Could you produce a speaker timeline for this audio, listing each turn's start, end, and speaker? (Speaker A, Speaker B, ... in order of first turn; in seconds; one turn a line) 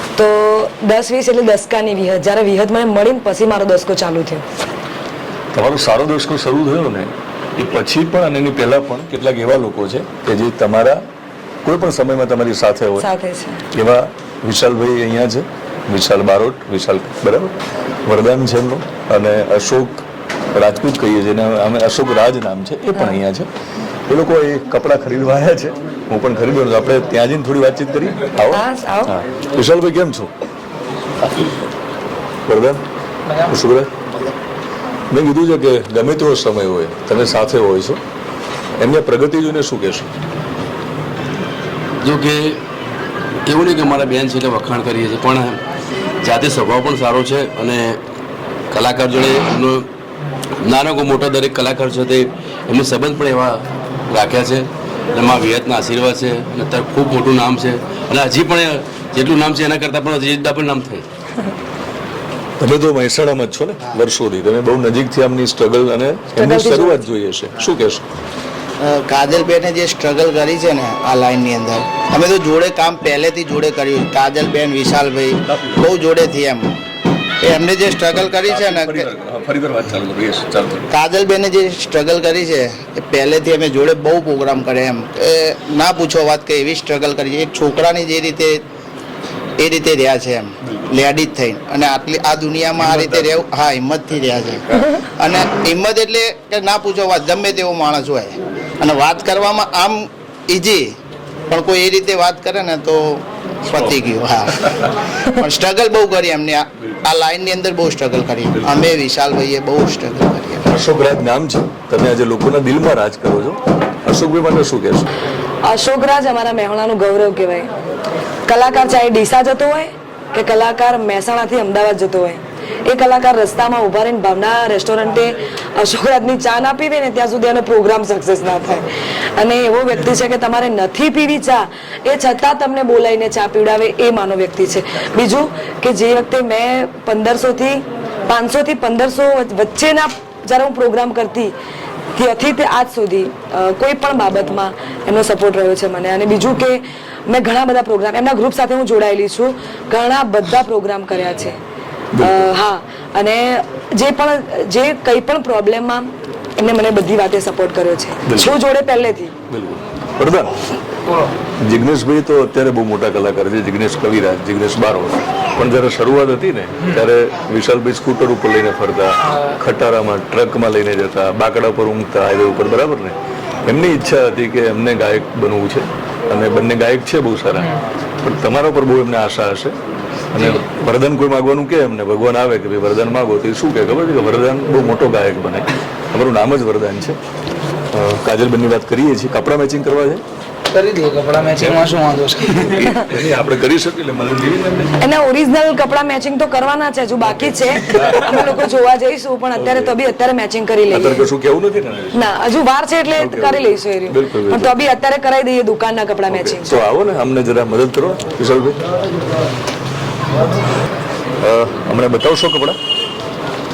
Speaker A: 0.1-4.4
Speaker B: 5.5-11.0
Speaker B: 11.6-13.1
Speaker A: 13.0-13.6
Speaker B: 13.7-17.5
Speaker B: 18.1-23.5
Speaker A: 22.9-23.2
Speaker B: 24.1-30.3
Speaker A: 28.5-29.1
Speaker B: 32.5-32.8
Speaker C: 33.3-33.5
Speaker B: 33.4-33.9
Speaker B: 35.1-38.0
Speaker B: 38.8-40.1
Speaker D: 42.0-42.6
Speaker D: 43.5-45.6
Speaker D: 46.2-48.0
Speaker D: 48.7-49.9
Speaker D: 50.6-61.0
Speaker B: 62.6-68.0
Speaker A: 66.3-67.0
Speaker E: 68.8-76.7
Speaker B: 75.4-75.9
Speaker E: 77.4-79.1
Speaker B: 78.3-80.9
Speaker E: 80.9-88.6
Speaker E: 89.6-101.0
Speaker B: 92.8-93.3
Speaker B: 94.7-94.9
Speaker E: 101.5-110.7
Speaker B: 108.6-108.9
Speaker B: 110.7-115.1
Speaker A: 115.6-117.7
Speaker A: 118.5-141.5
Speaker A: 142.2-151.6
Speaker B: 152.1-152.5
Speaker A: 152.2-159.3
Speaker B: 158.2-158.6
Speaker B: 159.5-160.5
Speaker C: 161.0-161.3
Speaker B: 161.6-177.7
Speaker B: 178.2-179.8
Speaker B: 180.3-187.2
Speaker B: 187.9-190.2
Speaker C: 190.7-192.9
Speaker B: 191.6-191.9
Speaker B: 192.6-194.9
Speaker A: 195.0-201.3
Speaker B: 197.8-198.7
Speaker B: 199.5-200.0
Speaker B: 200.9-202.3
Speaker A: 202.1-206.8
Speaker B: 203.2-204.7
Speaker B: 206.3-208.8
Speaker B: 211.4-212.8